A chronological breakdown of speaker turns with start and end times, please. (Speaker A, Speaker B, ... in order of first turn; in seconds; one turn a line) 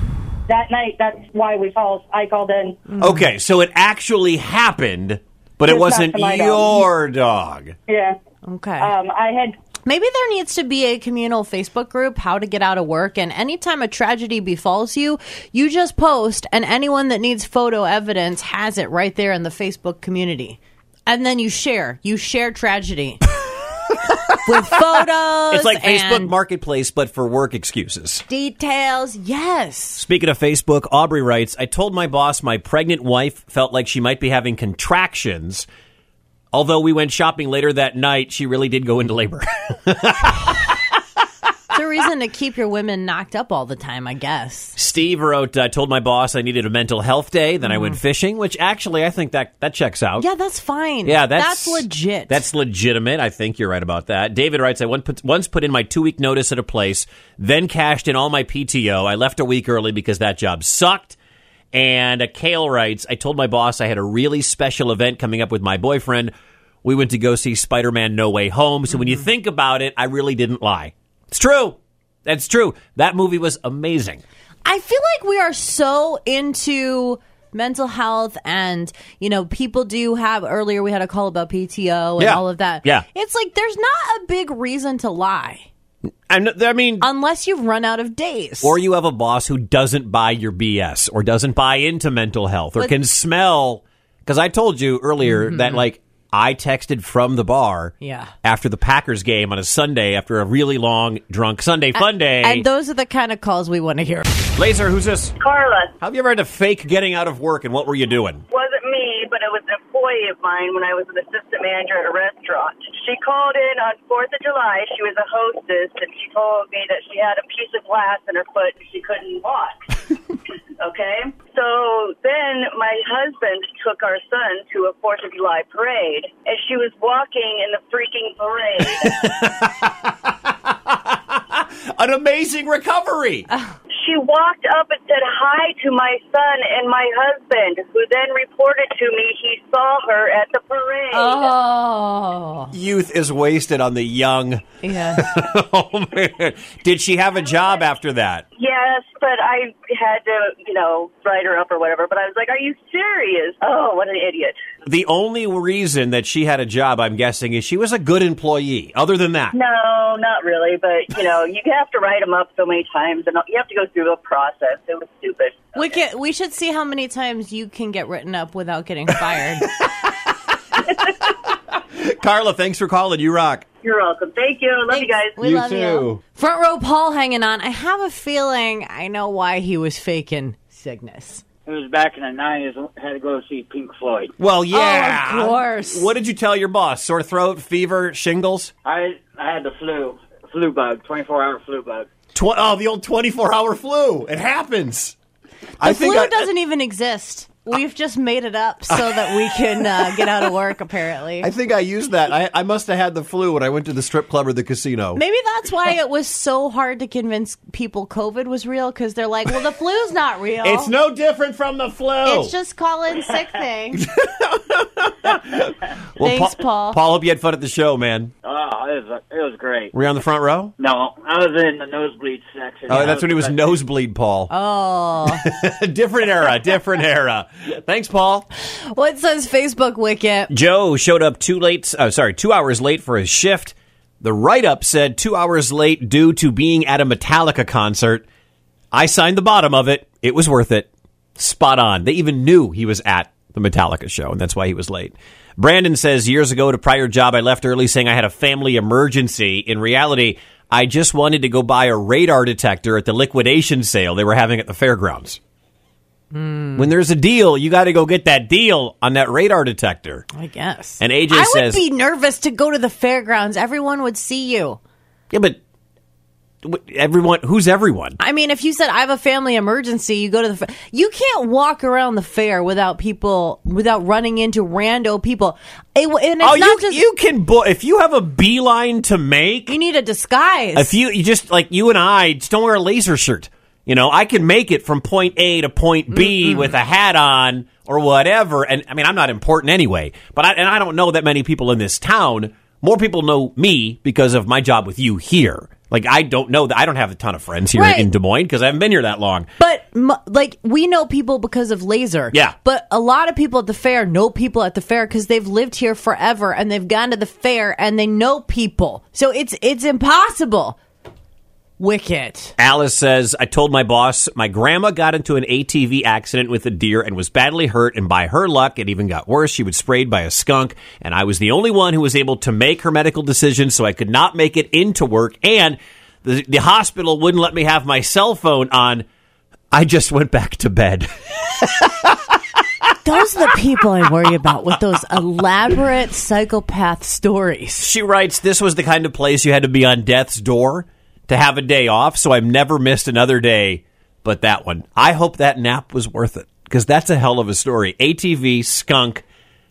Speaker A: 0.5-2.8
Speaker B: 2.9-3.2
Speaker C: 3.0-7.8
Speaker A: 5.7-6.8
Speaker A: 7.9-8.2
Speaker B: 8.4-8.9
Speaker A: 8.8-9.6
Speaker B: 9.8-23.2
Speaker B: 24.4-26.3
Speaker C: 25.5-28.2
Speaker B: 28.3-30.0
Speaker C: 29.9-35.6
Speaker C: 36.5-40.8
Speaker B: 41.7-44.8
Speaker C: 44.8-50.2
Speaker B: 47.7-47.9
Speaker B: 50.2-52.4
Speaker C: 51.0-61.2
Speaker C: 61.7-66.3
Speaker C: 66.8-74.2
Speaker B: 74.6-85.7
Speaker C: 82.2-83.0
Speaker C: 86.3-87.1
Speaker B: 87.0-88.7
Speaker C: 88.6-102.7
Speaker B: 95.3-95.8
Speaker B: 98.0-98.3
Speaker B: 102.0-104.3
Speaker C: 104.5-105.3
Speaker D: 105.4-105.9
Speaker C: 106.0-108.4
Speaker D: 108.5-119.8
Speaker D: 120.8-129.2
Speaker C: 128.9-133.5
Speaker D: 133.9-141.5
Speaker B: 141.1-142.7
Speaker C: 142.7-148.4
Speaker B: 144.8-145.3
Speaker D: 148.6-154.6
Speaker C: 154.8-159.5
Speaker D: 159.5-166.0
Speaker B: 165.7-169.7
Speaker C: 171.9-173.6
Speaker D: 173.8-175.4
Speaker B: 174.9-181.4
Speaker C: 175.4-176.2
Speaker E: 181.7-184.3
Speaker C: 184.4-188.7
Speaker B: 184.7-186.1
Speaker E: 188.8-192.1
Speaker C: 192.3-195.2
Speaker C: 195.8-196.5
Speaker B: 195.8-201.5
Speaker C: 198.9-200.6
Speaker C: 201.4-205.2
Speaker B: 205.2-210.9
Speaker C: 210.6-212.5
Speaker B: 212.2-214.0
Speaker C: 213.9-218.3
Speaker B: 216.2-217.0
Speaker E: 218.4-219.9
Speaker C: 219.9-220.7
Speaker E: 220.8-223.7
Speaker C: 222.9-224.5
Speaker B: 224.5-225.4
Speaker C: 225.2-228.5
Speaker B: 228.9-230.5
Speaker C: 230.5-238.2
Speaker C: 238.9-255.4
Speaker B: 256.3-256.9
Speaker C: 256.7-260.2
Speaker B: 260.3-264.8
Speaker C: 261.0-261.8
Speaker C: 265.3-265.6
Speaker C: 266.6-268.2
Speaker B: 268.2-277.0
Speaker C: 276.4-279.8
Speaker B: 279.7-280.9
Speaker C: 280.7-299.5
Speaker B: 286.1-286.7
Speaker B: 297.7-298.1
Speaker B: 299.6-310.8
Speaker B: 311.8-312.5
Speaker C: 312.6-329.0
Speaker C: 329.7-332.4
Speaker B: 333.0-337.9
Speaker C: 337.8-349.2